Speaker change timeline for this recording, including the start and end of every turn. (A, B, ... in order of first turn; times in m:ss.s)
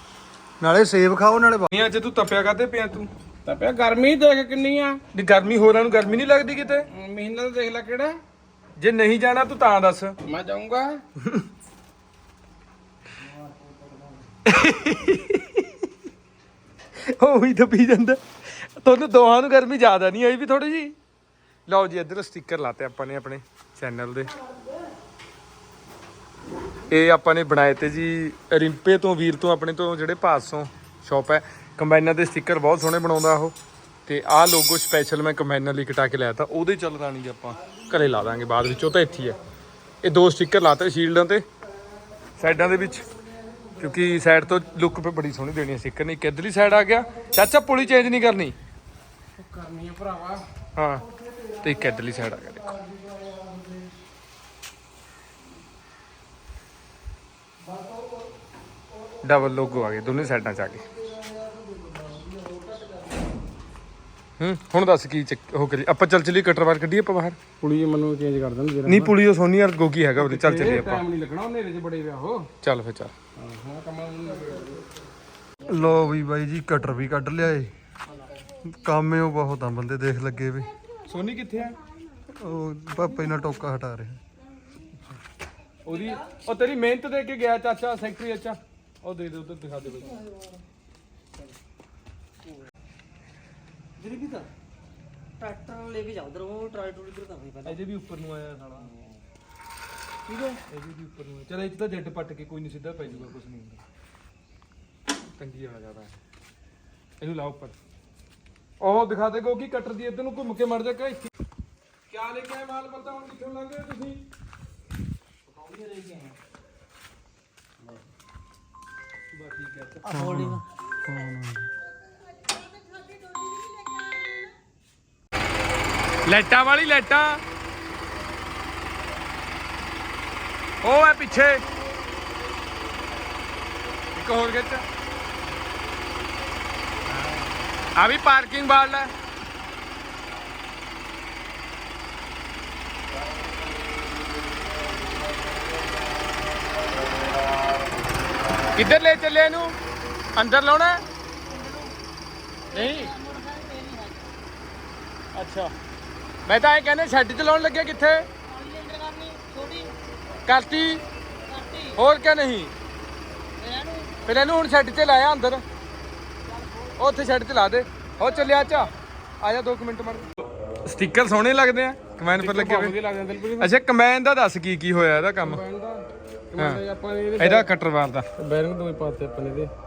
0:00.6-0:01.7 A
0:01.7-0:03.1 B
0:03.4-0:05.0 C
0:05.1-0:06.8 B
0:06.9-0:08.2 C
0:08.8-0:10.2 B
0:10.2-0:11.0 C
0:14.4-0:15.7 B
0:17.0-0:20.9 B
0:21.7-0:24.3 B
0:26.9-0:33.5 B
0:34.0-0:39.4 B
0:40.0-0:41.4 B
0:42.4-0:43.0 B
0:43.8-0:48.6 B
0:49.4-0:50.4 C
0:50.7-0:51.0 B
0:51.1-0:53.8 A
0:51.6-0:52.8 B
0:57.7-0:58.1 A
0:59.2-1:00.8 B
1:00.8-1:03.2 A
1:04.4-1:07.4 B
1:07.6-1:09.1 C
1:08.8-1:11.0 B
1:10.2-1:12.5 C
1:12.6-1:13.1 B
1:13.4-1:14.8 C
1:15.6-1:17.7 A
1:18.5-1:20.7 A
1:21.0-1:21.8 B
1:22.3-1:24.2 A
1:25.8-1:30.2 B
1:30.0-1:30.5 D
1:34.0-1:34.5 D
1:35.4-1:37.8 D
1:37.6-1:38.9 B
1:40.3-1:40.6 D
1:40.7-1:43.8 B
1:45.4-1:46.2 B
1:47.2-1:47.7 B
1:48.8-1:51.3 B
1:52.1-1:54.2 B
1:59.3-2:00.2 B
2:00.0-2:00.6 D
2:00.1-2:01.7 A
2:06.2-2:07.4 B
2:10.8-2:11.6 B
2:14.1-2:14.8 B
2:17.9-2:19.1 B
2:28.8-2:29.7 B
2:30.4-2:31.0 B
2:31.5-2:31.9 D
2:32.7-2:34.3 D
2:32.7-2:33.1 B
2:35.3-2:35.7 B
2:36.4-2:38.3 B
2:38.4-2:39.9 D
2:40.4-2:41.0 B
2:41.4-2:42.0 D
2:42.0-2:42.7 B
2:43.6-2:44.4 D
2:44.2-2:45.6 B
2:47.0-2:50.2 B
2:48.2-2:48.8 D
2:50.8-2:53.0 B
2:52.3-2:53.7 C
2:53.6-2:55.6 B
2:55.4-2:57.7 C
2:56.6-2:56.8 B
2:57.4-2:58.2 B
2:58.4-2:59.7 C